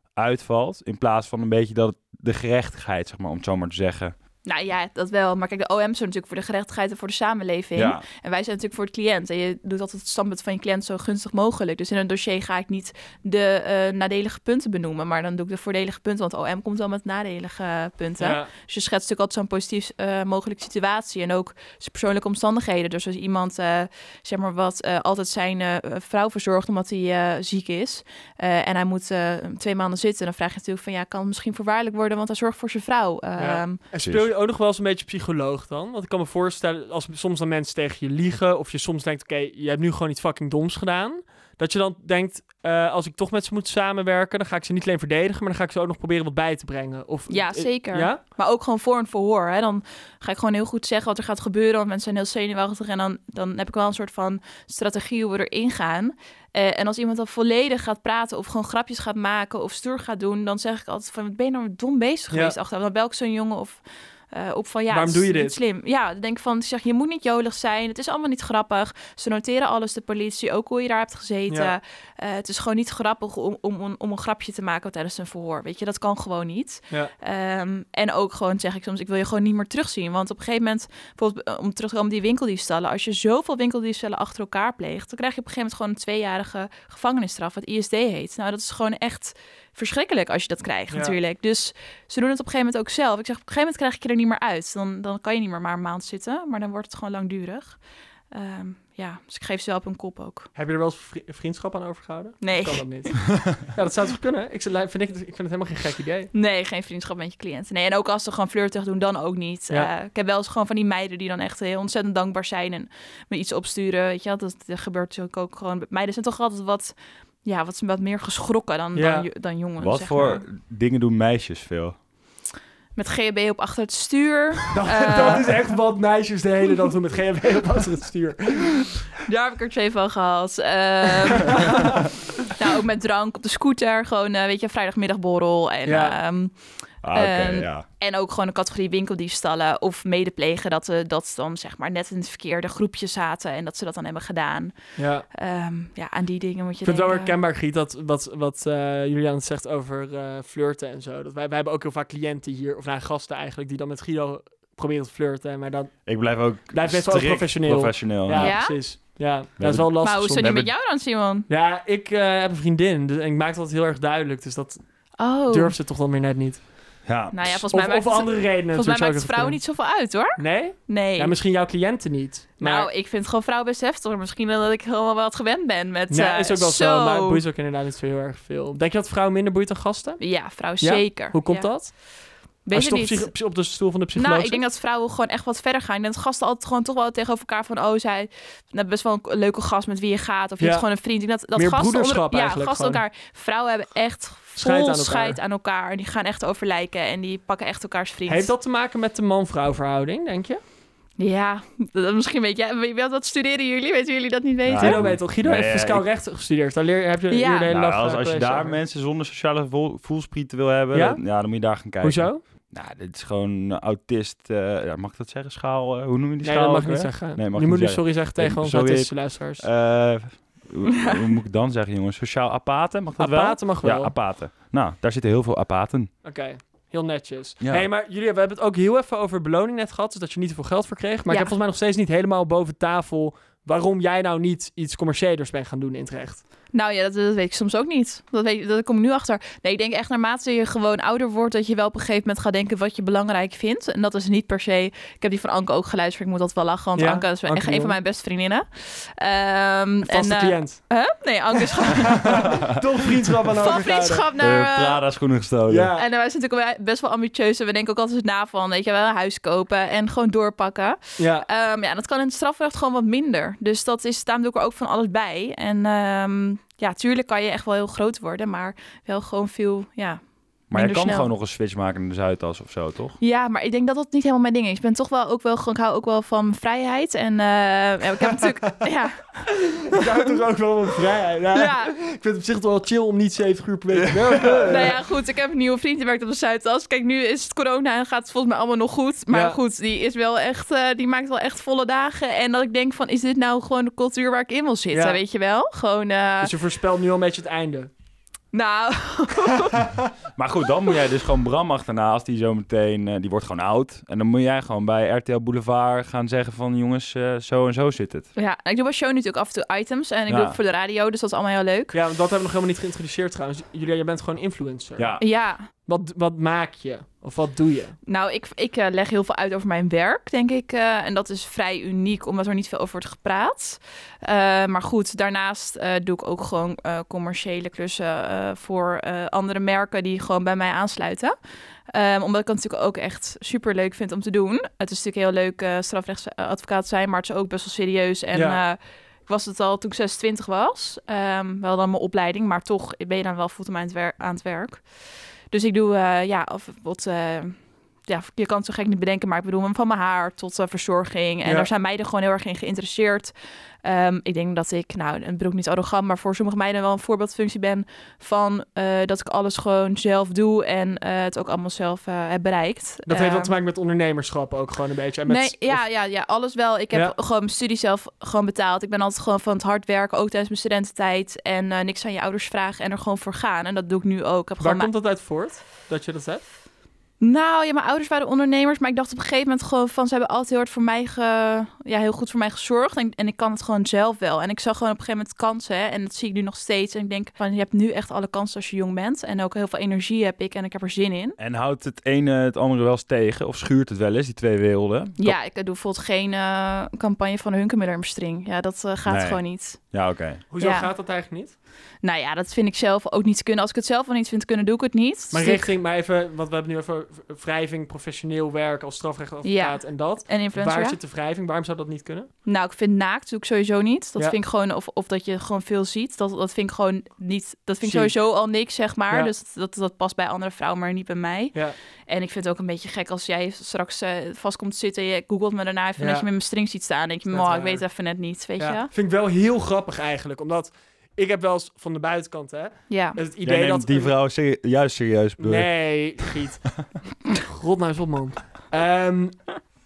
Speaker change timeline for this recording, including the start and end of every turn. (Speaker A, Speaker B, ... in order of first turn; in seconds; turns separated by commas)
Speaker A: 0.2-4.2, Speaker B: 4.5-33.8, Speaker A: 7.8-8.0, Speaker C: 18.2-18.5, Speaker C: 33.4-48.2, Speaker A: 34.0-34.3, Speaker B: 47.3-100.5, Speaker C: 64.9-65.6, Speaker C: 71.5-71.7, Speaker C: 90.9-91.2, Speaker C: 100.5-106.3, Speaker B: 102.4-103.3, Speaker B: 106.3-120.4, Speaker C: 119.0-119.3, Speaker A: 119.8-122.0, Speaker B: 123.0-125.5, Speaker C: 124.7-128.9, Speaker B: 129.2-144.8, Speaker C: 135.8-136.2, Speaker A: 137.0-137.9, Speaker C: 145.0-145.3, Speaker B: 145.3-147.3, Speaker C: 146.8-160.8, Speaker A: 156.1-158.8, Speaker B: 158.3-158.8, Speaker A: 159.6-160.7, Speaker B: 160.0-161.5, Speaker C: 161.5-167.0, Speaker B: 165.2-165.7, Speaker A: 167.1-167.6, Speaker B: 167.3-171.4, Speaker C: 167.7-169.6, Speaker C: 170.4-172.9, Speaker B: 172.6-177.4, Speaker C: 176.1-180.2, Speaker B: 180.2-182.1, Speaker C: 180.8-184.6, Speaker B: 182.6-183.4, Speaker B: 184.2-198.5, Speaker C: 190.6-190.9, Speaker C: 191.5-193.0, Speaker C: 194.6-195.4, Speaker C: 198.3-200.6, Speaker B: 201.2-205.1, Speaker A: 204.7-206.1, Speaker C: 204.8-208.8, Speaker B: 207.3-207.7, Speaker A: 207.7-226.1, Speaker C: 210.9-212.4, Speaker C: 216.4-219.7, Speaker C: 223.2-224.1, Speaker C: 226.2-236.4, Speaker A: 227.6-227.9, Speaker B: 231.3-231.5, Speaker B: 236.7-252.7, Speaker C: 247.0-247.9, Speaker C: 250.1-250.8, Speaker C: 252.2-254.3, Speaker B: 253.6-255.0, Speaker A: 254.4-255.9, Speaker C: 255.7-256.1, Speaker B: 256.0-271.3, Speaker C: 261.2-261.5, Speaker A: 270.7-273.2, Speaker B: 273.2-280.0, Speaker C: 279.9-285.0, Speaker B: 281.5-282.0, Speaker A: 284.1-284.7, Speaker B: 284.7-296.5, Speaker C: 289.3-289.6, Speaker C: 294.9-295.2, Speaker C: 296.4-297.9, Speaker B: 298.5-299.9, Speaker A: 300.4-308.3, Speaker B: 308.4-312.0, Speaker A: 310.3-310.6, Speaker C: 311.9-315.3, Speaker A: 315.0-315.2, Speaker B: 315.2-315.7, Speaker C: 315.9-318.0, Speaker B: 318.1-331.4, Speaker B: 331.9-363.5, Speaker C: 338.3-338.6, Speaker C: 363.1-365.8, Speaker B: 365.3-374.9, Speaker C: 374.6-376.5, Speaker B: 377.2-391.4, Speaker A: 391.4-395.4, Speaker B: 395.2-399.9, Speaker A: 399.1-400.4, Speaker C: 400.5-401.6, Speaker B: 400.6-400.9, Speaker B: 402.0-405.7, Speaker C: 405.3-412.3, Speaker B: 409.4-411.0, Speaker B: 412.5-428.9, Speaker C: 417.8-418.2, Speaker C: 426.0-426.3, Speaker C: 427.3-427.9, Speaker C: 428.6-434.1, Speaker B: 432.9-433.2, Speaker A: 433.4-436.2, Speaker C: 435.4-436.8, Speaker C: 437.4-439.6